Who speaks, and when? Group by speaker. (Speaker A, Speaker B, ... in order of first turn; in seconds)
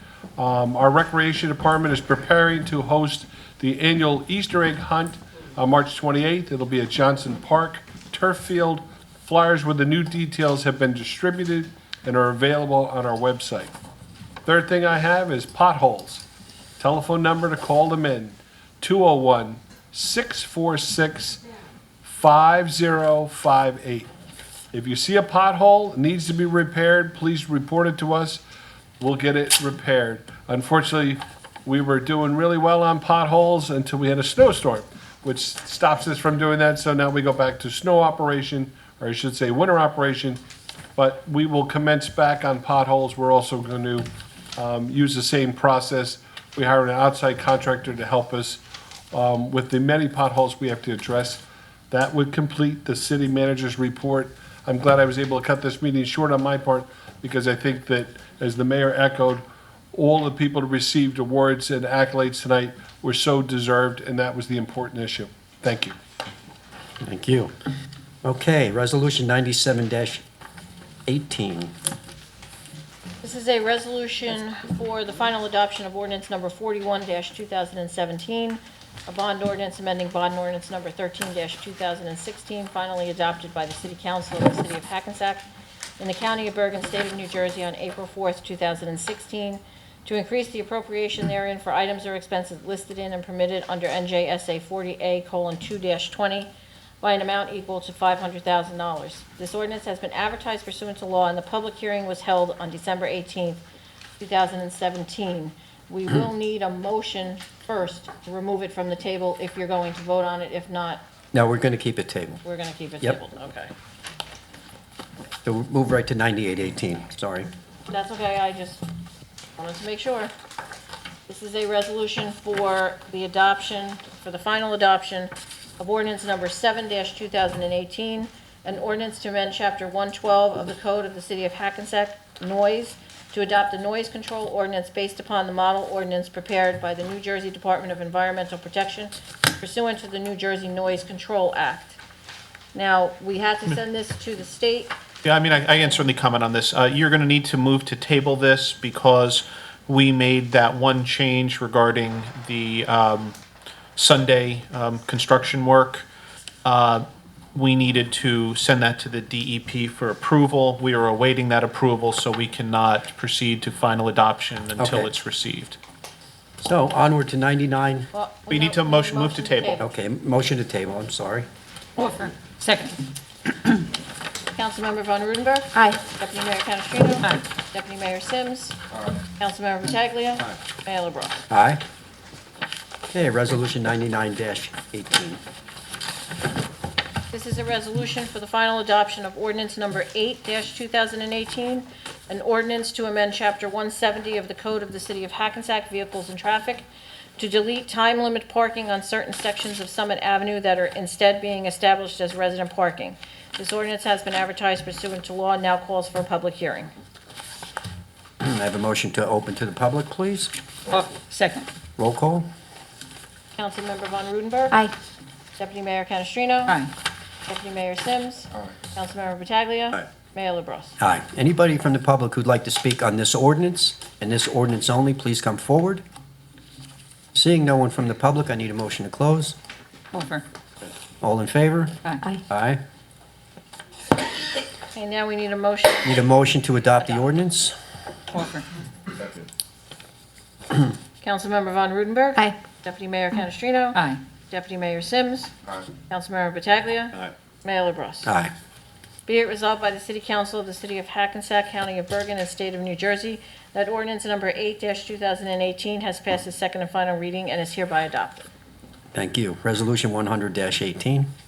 Speaker A: 0.4-13.7, 14.4-16.2, 16.8-21.4, 22.0-24.1, 24.7-28.4, 29.0-40.4, 41.0-66.0
Speaker B: 67.0-67.5, 68.2-70.2, 71.1-71.7, 111.3-112.4, 115.4-117.5, 164.8-165.1, 166.6-168.1, 169.8-171.5, 181.5-181.8, 183.1-185.4, 208.4-210.5, 212.0-212.4, 221.0-226.0, 227.3-229.6, 231.2-231.9, 232.5-232.8, 236.0-237.8, 248.2-248.5, 259.1-261.3
Speaker C: 73.2-85.4, 86.0-96.5, 97.0-103.6, 104.2-111.0, 112.4-113.7, 117.9-118.8, 119.6-120.3, 121.3-142.0, 142.7-144.9, 168.1-169.9, 174.6-178.8, 179.4-181.4, 187.3-196.8, 197.4-206.9, 213.6-214.8, 215.6-216.8, 217.5-220.9, 234.9-236.1, 241.2-245.5, 246.1-248.3, 249.2-258.5
Speaker D: 145.2-153.4, 153.9-156.1, 156.6-165.8, 168.5-169.8
Speaker E: 172.0-173.0, 177.2-177.4, 210.9-211.7, 230.1-230.4, 238.3-238.7, 243.9-244.2